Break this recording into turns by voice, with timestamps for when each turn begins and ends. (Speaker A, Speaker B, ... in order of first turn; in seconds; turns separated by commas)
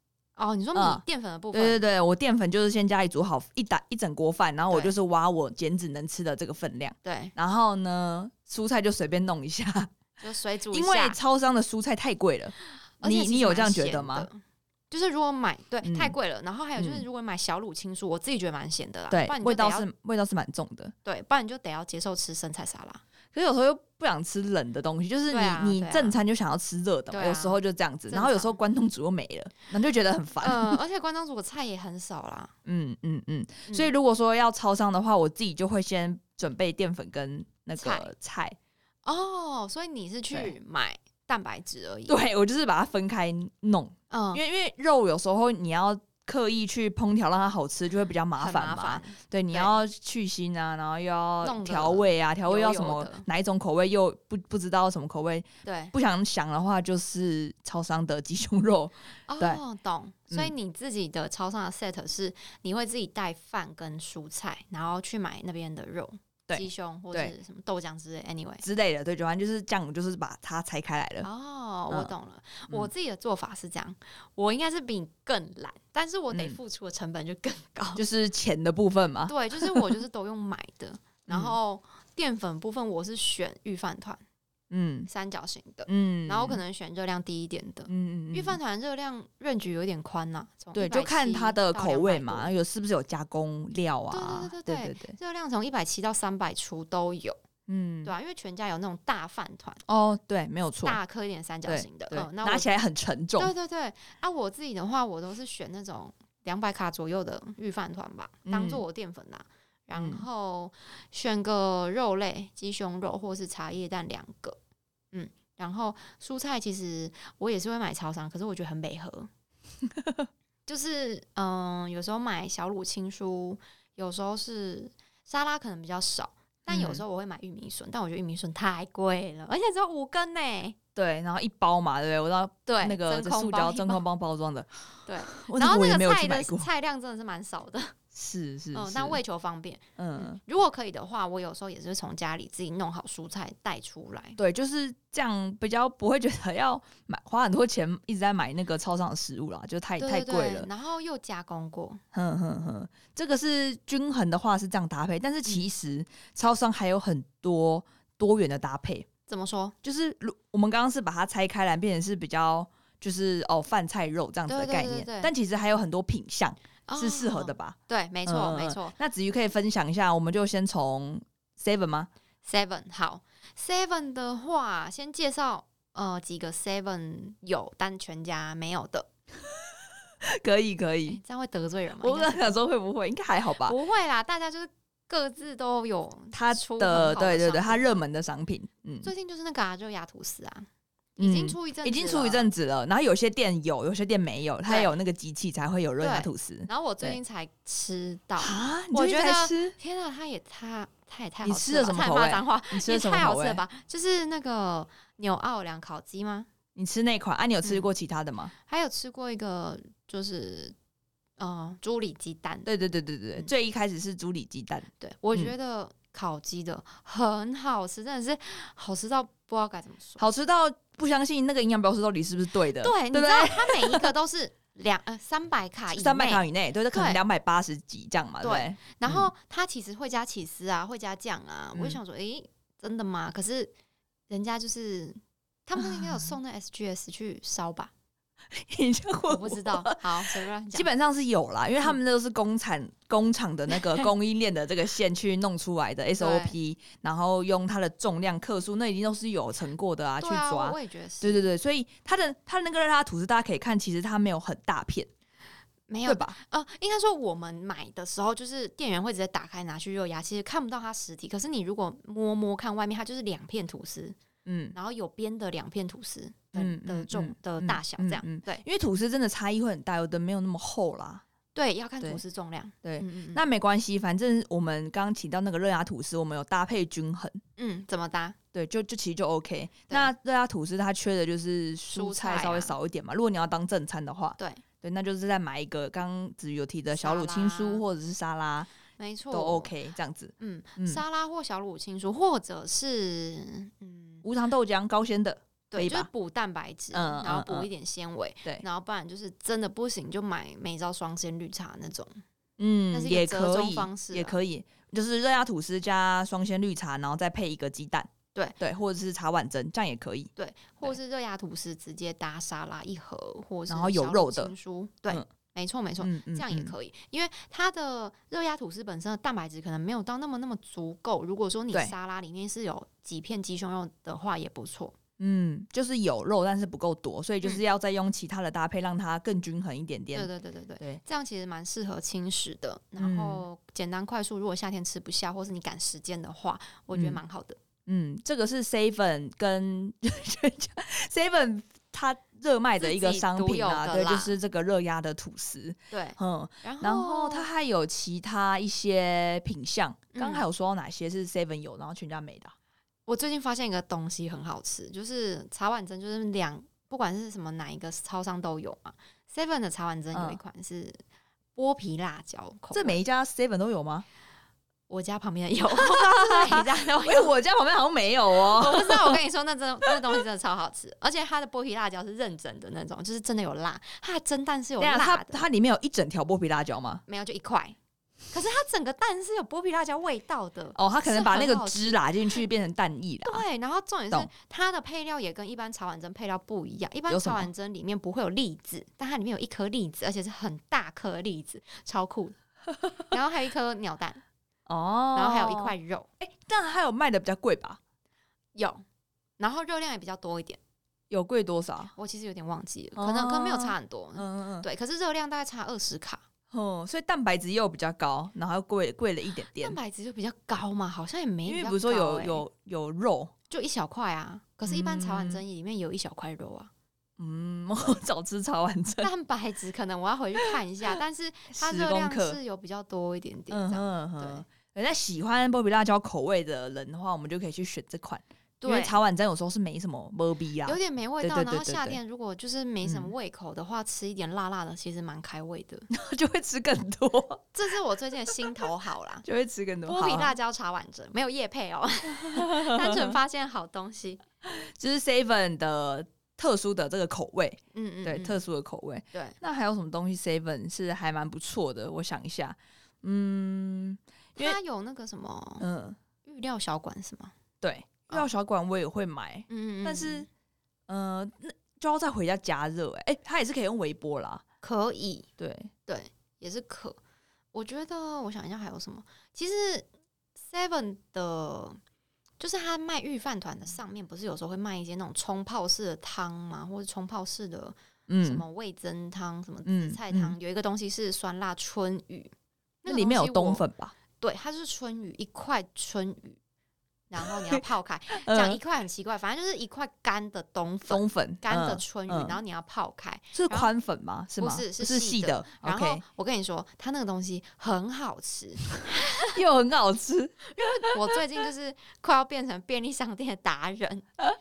Speaker A: 0.3-1.8, Speaker B: 0.8-9.9, Speaker A: 7.0-7.3, Speaker A: 10.2-11.2, Speaker B: 10.7-14.3, Speaker A: 13.0-19.9, Speaker B: 15.8-16.1, Speaker B: 16.8-17.0, Speaker B: 19.1-20.9, Speaker A: 21.0-23.0, Speaker B: 23.3-30.8, Speaker A: 25.3-26.2, Speaker A: 27.1-27.6, Speaker A: 28.1-28.6, Speaker A: 30.4-32.5, Speaker B: 32.7-38.5, Speaker A: 33.7-33.9, Speaker A: 37.8-38.1, Speaker A: 39.0-42.2, Speaker B: 42.1-59.6, Speaker A: 44.1-44.4, Speaker A: 48.4-49.8, Speaker A: 51.4-53.2, Speaker A: 55.6-55.9, Speaker A: 59.3-68.6, Speaker B: 66.5-67.3, Speaker B: 68.6-71.3, Speaker A: 71.2-78.0, Speaker B: 76.3-76.6, Speaker B: 78.0-80.0, Speaker A: 79.3-84.2, Speaker B: 81.3-81.5, Speaker B: 84.7-85.1, Speaker A: 85.1-92.5, Speaker B: 85.8-86.6, Speaker B: 87.9-88.6, Speaker B: 90.7-95.2, Speaker A: 94.1-97.4, Speaker B: 97.7-98.1, Speaker A: 98.0-99.8, Speaker B: 99.9-101.0, Speaker A: 100.8-102.7, Speaker B: 101.7-103.5, Speaker A: 103.4-114.6, Speaker B: 108.5-108.8, Speaker B: 109.9-110.2, Speaker A: 115.1-119.3, Speaker B: 119.9-120.3, Speaker A: 120.7-130.8, Speaker B: 126.7-127.0, Speaker B: 131.0-134.7, Speaker A: 132.7-134.0, Speaker A: 135.1-138.0, Speaker B: 135.3-136.7, Speaker B: 138.1-139.2, Speaker A: 138.7-144.4, Speaker B: 140.0-140.4, Speaker B: 144.4-150.7, Speaker A: 150.0-152.0, Speaker B: 152.1-159.1, Speaker A: 159.3-159.7, Speaker B: 159.8-172.1, Speaker A: 164.5-165.3, Speaker A: 166.9-168.9, Speaker A: 172.4-179.1, Speaker B: 180.2-181.2, Speaker A: 181.1-182.5, Speaker B: 182.0-183.8, Speaker A: 183.6-188.0, Speaker B: 186.3-189.1, Speaker A: 189.0-192.5, Speaker B: 191.2-197.2, Speaker A: 194.7-194.9, Speaker A: 196.0-206.5, Speaker B: 198.4-199.8, Speaker B: 201.4-203.6, Speaker B: 206.7-208.5, Speaker A: 208.7-210.7, Speaker A: 211.4-212.7, Speaker B: 212.7-215.5, Speaker A: 215.0-220.2, Speaker B: 220.2-224.1, Speaker A: 222.8-227.2, Speaker B: 225.9-229.3, Speaker A: 228.4-233.7, Speaker B: 231.7-232.0, Speaker A: 234.3-237.9, Speaker B: 235.8-236.2, Speaker B: 238.5-255.1, Speaker A: 239.2-240.9, Speaker A: 243.8-244.0, Speaker A: 246.2-246.6, Speaker A: 250.2-251.4, Speaker A: 255.9-264.2, Speaker B: 256.1-256.4, Speaker B: 264.4-264.8, Speaker A: 264.7-268.6, Speaker B: 266.5-271.2, Speaker A: 271.5-273.4, Speaker B: 272.8-277.4, Speaker A: 277.6-278.4, Speaker B: 278.5-288.7, Speaker A: 281.9-282.8, Speaker A: 284.4-284.6, Speaker A: 287.0-287.8, Speaker A: 289.0-289.7, Speaker B: 289.3-291.0, Speaker A: 290.4-294.2, Speaker B: 294.2-296.1, Speaker A: 295.7-302.2, Speaker B: 296.9-297.7, Speaker B: 302.6-310.3, Speaker A: 302.9-304.4, Speaker A: 310.4-324.9, Speaker B: 313.7-314.5, Speaker B: 316.0-316.7, Speaker B: 325.2-330.3, Speaker A: 330.1-337.6, Speaker B: 333.0-333.4, Speaker B: 336.9-337.2, Speaker B: 337.9-352.5, Speaker A: 342.8-344.3, Speaker A: 345.9-347.5, Speaker A: 350.1-350.4, Speaker A: 353.1-361.0, Speaker B: 360.1-360.4, Speaker A: 361.6-363.0, Speaker B: 362.7-364.1, Speaker A: 364.9-367.3, Speaker B: 365.8-369.2, Speaker A: 368.5-375.4, Speaker B: 374.8-377.0, Speaker A: 377.1-377.8, Speaker A: 378.3-382.0, Speaker B: 380.8-383.4, Speaker A: 383.2-392.4, Speaker B: 387.1-387.5, Speaker A: 393.1-394.2, Speaker B: 394.7-397.8, Speaker A: 395.1-396.1, Speaker A: 398.5-398.8, Speaker A: 399.4-400.6, Speaker B: 401.1-401.9, Speaker A: 401.9-406.2, Speaker B: 402.9-404.6, Speaker B: 406.5-409.8, Speaker A: 409.5-412.4, Speaker B: 411.4-413.3, Speaker A: 413.5-416.7, Speaker B: 414.6-415.4, Speaker B: 417.2-419.1, Speaker A: 419.0-424.4, Speaker B: 421.5-422.4, Speaker B: 423.5-432.0, Speaker A: 428.6-429.0, Speaker A: 430.6-435.9, Speaker B: 432.8-433.1, Speaker B: 435.9-437.4, Speaker A: 437.5-439.2, Speaker B: 439.2-440.3, Speaker A: 439.9-444.2, Speaker B: 442.1-443.1, Speaker B: 444.4-454.6, Speaker A: 447.7-448.4, Speaker A: 454.4-455.6, Speaker B: 455.6-456.0, Speaker A: 456.2-457.3, Speaker B: 457.6-460.2, Speaker A: 459.5-460.3, Speaker B: 460.9-464.4, Speaker A: 464.6-465.3, Speaker B: 465.4-465.7, Speaker A: 465.9-467.0, Speaker A: 467.5-469.9, Speaker A: 470.4-471.8, Speaker A: 472.4-482.3, Speaker B: 478.1-478.4, Speaker B: 479.6-480.4, Speaker A: 482.8-483.6, Speaker B: 482.9-483.9, Speaker A: 484.2-486.4, Speaker A: 487.1-493.7, Speaker B: 488.2-488.6, Speaker B: 490.9-492.4, Speaker B: 493.3-496.0, Speaker A: 494.4-499.4, Speaker B: 499.3-500.9, Speaker A: 500.5-504.1